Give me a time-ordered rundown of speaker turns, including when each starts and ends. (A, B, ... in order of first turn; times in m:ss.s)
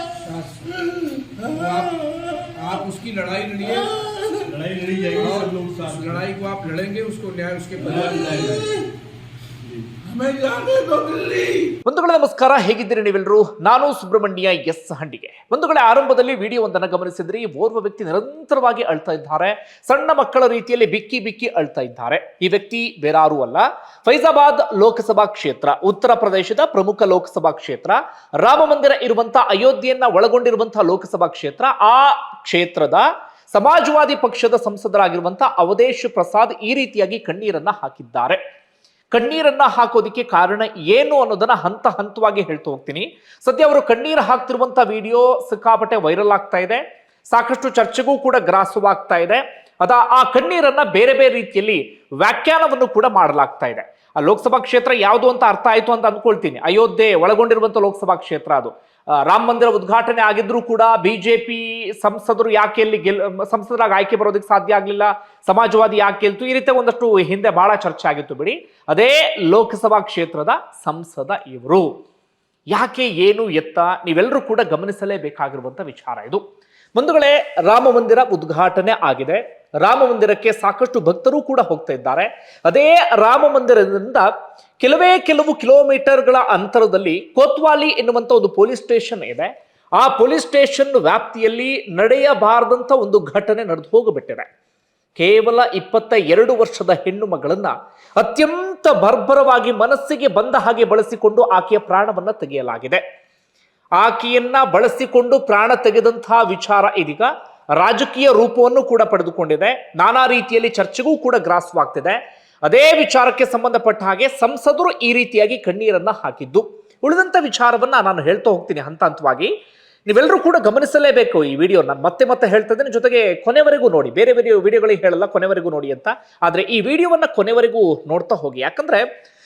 0:00.2-0:00.7 A
0:01.4-0:04.4 A
0:04.5-0:06.2 B
0:05.2-0:08.7 A
0:07.9-0:08.6 B
0:10.0-0:11.7 A
0:11.8-0:38.4 C
0:39.1-1:11.9 C
1:12.7-1:16.4 C
1:16.9-1:24.3 C
1:24.8-1:34.5 C
1:35.2-1:43.0 C
1:44.0-1:59.5 C
2:00.1-2:09.1 C